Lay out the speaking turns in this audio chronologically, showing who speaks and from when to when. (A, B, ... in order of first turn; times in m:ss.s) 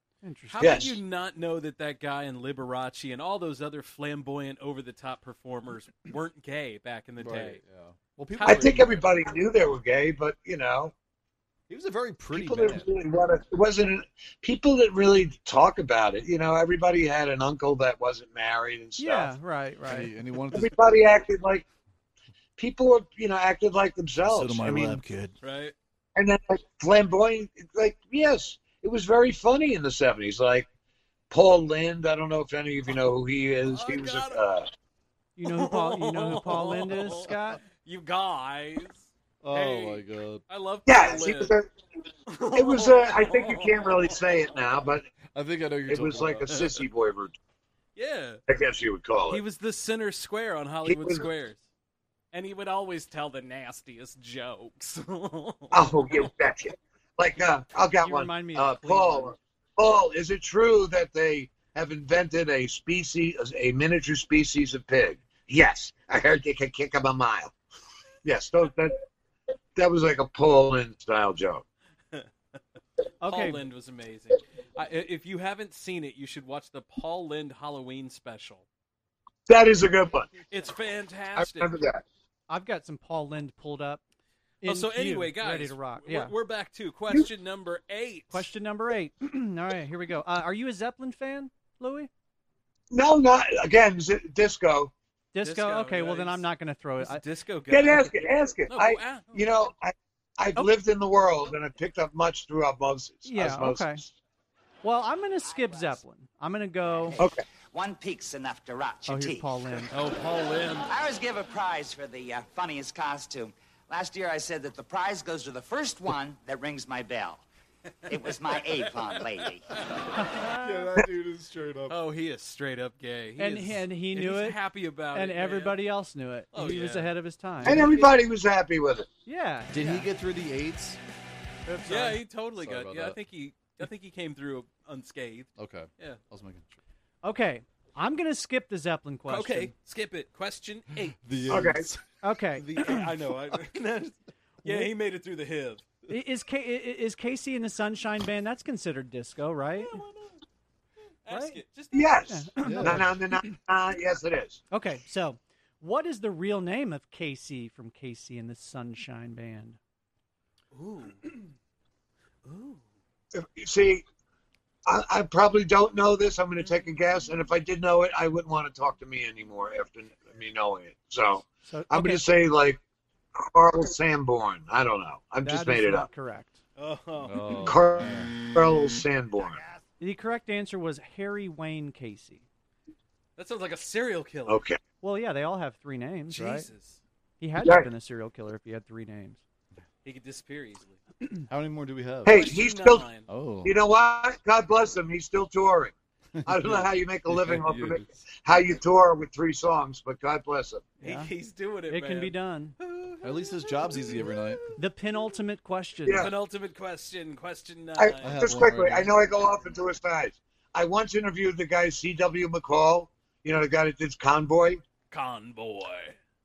0:00.2-0:00.8 A
0:00.5-0:07.6 B
0:00.6-0:01.0 C
0:07.2-0:09.1 D
0:08.4-0:08.9 B
0:08.4-0:10.9 C
0:11.7-0:12.9 D
0:12.3-0:19.3 C
0:19.0-0:20.1 A
0:19.8-0:20.8 D
0:20.5-0:21.6 C
0:22.6-0:25.0 C
0:24.2-0:25.4 D
0:25.4-0:25.7 B
0:26.2-0:30.6 C
0:31.3-0:34.7 C
0:33.6-0:34.4 B
0:35.4-0:37.6 A
0:35.4-0:41.6 B
0:39.4-0:40.4 D
0:40.8-0:41.7 C
0:42.3-0:44.1 B
0:42.5-0:45.1 C
0:45.3-0:46.8 D
0:45.9-0:47.3 C
0:48.0-0:48.4 B
0:48.5-0:49.4 C
0:49.3-0:51.6 B
0:50.8-0:51.2 C
0:52.3-0:55.8 B
0:55.7-1:07.5 C
0:58.0-0:59.3 A
1:08.2-1:09.0 C
1:09.8-1:11.6 C
1:13.2-1:13.6 A
1:13.2-1:18.6 B
1:19.5-1:20.3 C
1:20.5-1:21.7 B
1:21.4-1:22.0 C
1:22.5-1:24.0 A
1:24.6-1:26.3 A
1:24.6-1:28.4 B
1:28.3-1:32.1 A
1:32.9-1:34.9 C
1:35.3-1:37.2 A
1:35.4-1:36.5 B
1:37.0-1:38.1 B
1:37.7-1:44.1 C
1:38.7-1:39.5 B
1:43.2-1:44.0 A
1:44.8-1:47.2 A
1:45.4-1:46.0 E
1:46.9-1:49.8 E
1:49.1-1:49.9 A
1:49.9-1:50.9 B
1:50.8-1:57.4 E
1:58.1-1:59.6 E
1:58.5-1:59.9 B
2:00.2-2:00.9 A
2:00.4-2:02.0 D
2:01.9-2:05.8 B
2:03.4-2:04.6 A
2:05.1-2:07.9 A
2:06.5-2:07.1 B
2:07.6-2:09.1 C
2:09.2-2:10.0 A
2:09.7-2:11.0 D
2:11.7-2:12.2 A
2:11.8-2:16.2 B
2:12.6-2:13.2 D
2:15.6-2:16.8 D
2:17.2-2:19.7 A
2:19.3-2:21.6 B
2:21.1-2:22.0 D
2:21.5-2:21.8 C
2:22.2-2:23.1 A
2:22.6-2:22.9 D
2:22.7-2:26.0 B
2:24.6-2:24.9 A
2:26.1-2:30.0 A
2:29.8-2:30.3 B
2:31.2-2:32.2 B
2:31.3-2:31.6 A
2:31.9-2:34.6 C
2:32.3-2:33.4 A
2:32.6-2:33.1 D
2:34.7-2:39.8 A
2:40.7-2:41.2 B
2:42.4-2:42.8 B
2:43.3-2:44.0 C
2:44.8-2:52.8 C
2:51.6-2:52.2 A
2:53.3-2:56.1 C
2:55.4-2:56.6 A
2:56.8-2:57.7 B
2:57.2-2:58.3 D
2:57.6-2:59.6 C
3:00.0-3:02.4 A
3:03.4-3:04.6 B
3:04.5-3:04.8 C
3:05.0-3:06.7 A
3:06.3-3:07.0 B
3:07.4-3:09.4 A
3:07.6-3:07.9 C
3:10.0-3:11.0 B
3:11.5-3:12.5 D
3:12.2-3:13.1 C
3:12.2-3:13.3 B
3:13.3-3:13.7 D
3:13.6-3:15.9 C
3:16.3-3:18.1 D
3:16.4-3:20.8 C
3:21.0-3:21.3 A
3:21.0-3:24.6 B
3:21.9-3:22.8 A
3:23.2-3:24.6 D
3:24.8-3:26.3 A
3:26.0-3:26.3 C
3:26.1-3:28.6 B
3:28.0-3:34.8 C
3:28.2-3:29.1 D
3:35.1-3:36.2 B